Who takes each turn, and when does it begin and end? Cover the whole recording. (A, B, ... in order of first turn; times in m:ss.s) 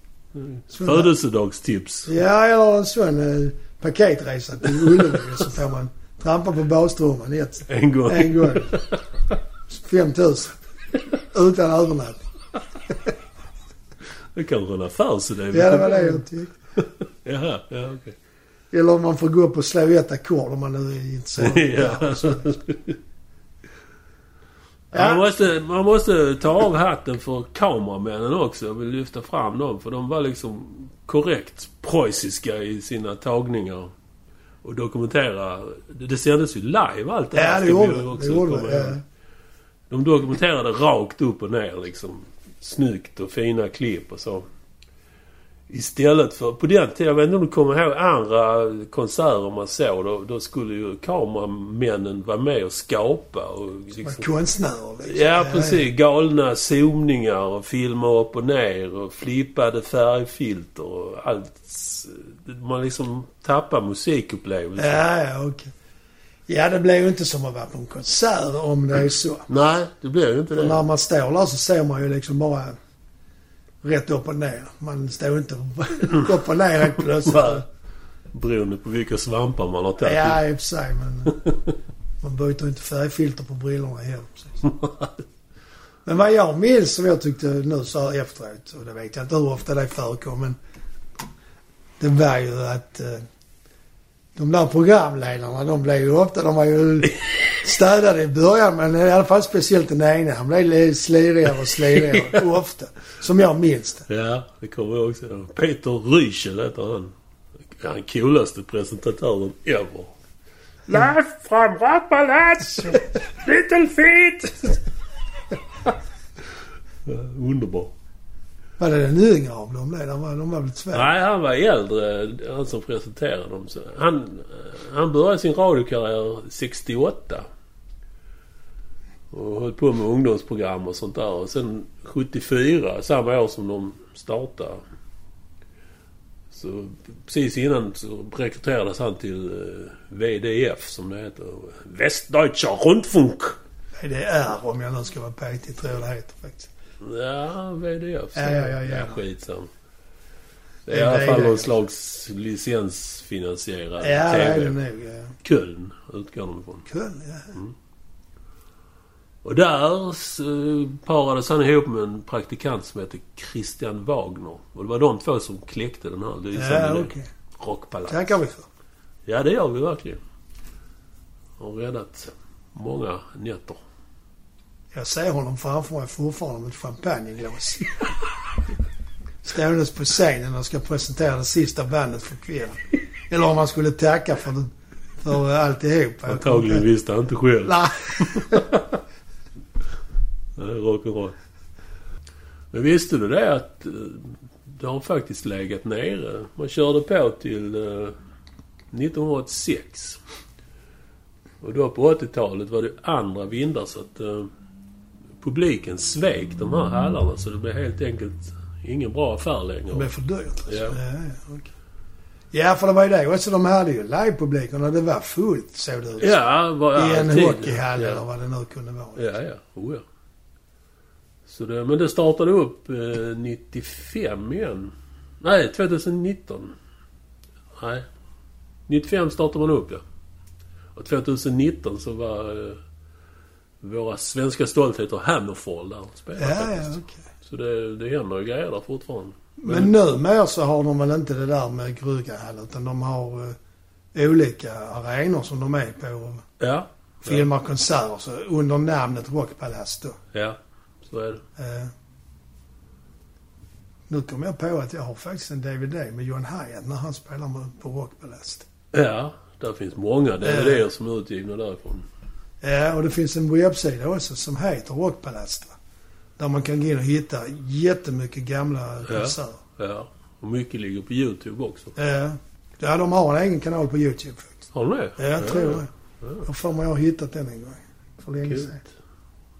0:00.3-0:02.1 A
0:00.7-0:01.1 B
0:02.0-0:08.8 B
0:04.8-0:05.2 A
0:07.7-0:09.0 A
0:09.7-0:10.6 B
0:11.2-0:12.2 B
0:14.3-0:16.2 A
0:15.5-0:16.5 B
0:16.8-0:18.2 A
0:18.7-0:22.4 B
0:21.4-0:23.0 A
0:24.9-0:33.9 A
0:24.9-0:25.2 B
0:34.6-0:39.0 A
0:37.3-0:39.0 B
0:39.9-0:44.4 A
0:45.7-0:54.3 A
0:54.0-0:55.8 B
0:55.0-1:05.0 A
1:04.8-1:05.7 B
1:06.5-1:09.5 B
1:09.5-1:10.8 A
1:10.5-1:12.8 B
1:13.8-1:17.6 B
1:17.0-1:17.6 A
1:18.3-1:20.4 A
1:20.0-1:21.4 B
1:22.2-1:24.7 B
1:24.8-1:25.1 A
1:26.0-1:30.6 B
1:32.0-1:33.2 B
1:34.4-1:44.1 B
1:41.9-1:42.4 A
1:44.1-1:47.1 A
1:47.7-1:50.1 A
1:50.9-1:54.8 A
1:57.0-1:57.9 A
1:58.8-2:01.1 B
2:00.9-2:07.5 A
2:09.3-2:14.8 A
2:16.5-2:23.6 A
2:23.9-2:26.7 B
2:27.0-2:29.7 A
2:28.4-2:29.2 B
2:30.9-2:34.8 A
2:30.9-2:31.7 B
2:34.0-2:35.3 B
2:35.4-2:36.8 A
2:36.8-2:37.6 B
2:39.4-2:48.3 A
2:46.5-2:47.3 B
2:48.1-2:48.7 B
2:49.2-2:50.2 A
2:51.6-2:53.8 A
2:54.9-2:58.1 B
2:59.4-3:06.8 B
3:06.3-3:08.9 A
3:07.6-3:08.6 B
3:10.6-3:11.4 A
3:12.7-3:18.2 A
3:18.9-3:20.2 A
3:21.6-3:24.5 A
3:25.4-3:30.1 A
3:29.9-3:31.7 B
3:30.7-3:31.0 A
3:32.5-3:36.4 B
3:36.2-3:38.2 A
3:36.9-3:39.2 B
3:39.2-3:40.0 A
3:41.4-3:46.7 A
3:47.7-3:48.1 A
3:48.9-3:50.0 A
3:50.9-3:52.8 A
3:53.8-3:59.9 A
3:56.4-3:57.2 B
3:59.6-4:03.6 B
4:04.1-4:06.4 B
4:06.6-4:07.4 A
4:07.2-4:10.2 B
4:10.3-4:11.4 A
4:11.6-4:11.9 B
4:14.1-4:18.6 B
4:18.9-4:22.0 A
4:20.4-4:20.8 B
4:22.6-4:25.7 B
4:26.4-4:29.6 B
4:29.0-4:31.9 A
4:32.0-4:38.8 B
4:34.7-4:36.4 A
4:38.4-4:38.9 A